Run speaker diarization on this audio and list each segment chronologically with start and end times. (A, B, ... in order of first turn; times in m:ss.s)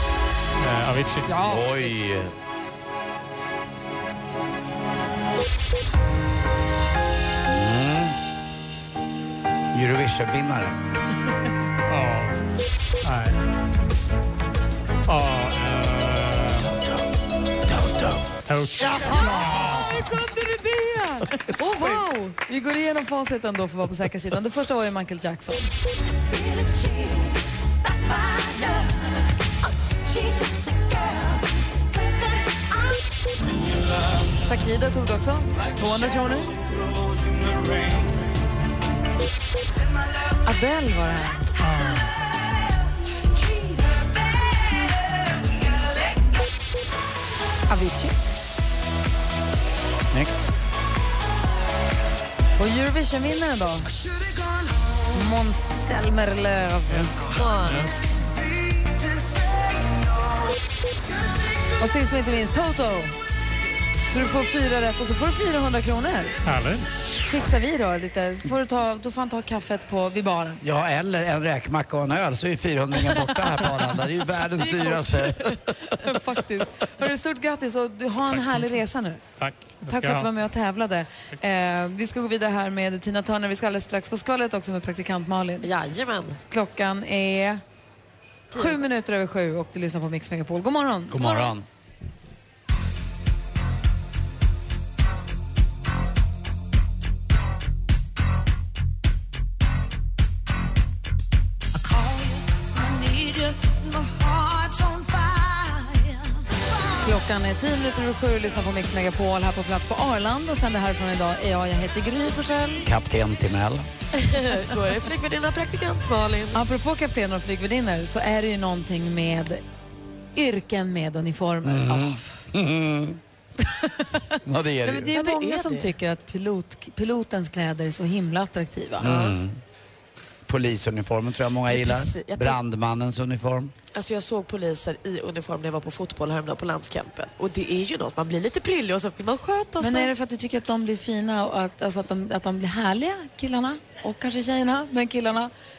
0:00.6-0:01.4 A
0:01.3-0:02.0 B
0:01.5-0:02.3 C
0:07.5-0:08.2 C
0:09.7-0:10.8 C
0:11.9-0:12.4 A
0:13.0-0:13.4 A
0:15.1-0:16.7 A
0:17.7-0:18.3 C
0:18.5-0:19.9 A
0:19.0-0:19.6 B
0:21.5-0:25.7 B
0:28.4-0:28.7 D
0:34.4-0:36.5 B
0:40.4-0:41.5 B
0:47.7-0:48.1 B
0:50.1-0:50.4 C
0:52.6-0:53.9 B
0:55.1-0:57.3 B
0:56.9-0:58.0 A
0:57.3-0:57.9 E
1:01.8-1:03.2 B
1:04.1-1:06.4 B
1:06.4-1:06.9 A
1:07.3-1:10.6 B
1:10.6-1:15.4 C
1:14.7-1:15.6 E
1:16.0-1:19.2 B
1:18.3-1:18.7 A
1:19.4-1:20.3 A
1:19.9-1:25.7 B
1:25.6-1:26.4 E
1:26.5-1:27.6 B
1:28.5-1:28.8 E
1:28.5-1:31.5 B
1:31.1-1:31.6 C
1:41.8-1:46.0 D
1:47.0-1:52.8 B
1:52.8-1:53.9 C
1:54.2-1:56.6 E
1:56.5-1:59.6 B
2:00.4-2:02.2 B
2:01.6-2:03.2 C
2:04.4-2:05.1 C
2:04.8-2:09.1 B
2:05.1-2:05.9 E
2:09.0-2:09.6 C
2:09.0-2:09.4 E
2:10.5-2:13.7 C
2:11.7-2:12.6 E
2:13.9-2:20.1 E
2:19.8-2:25.5 B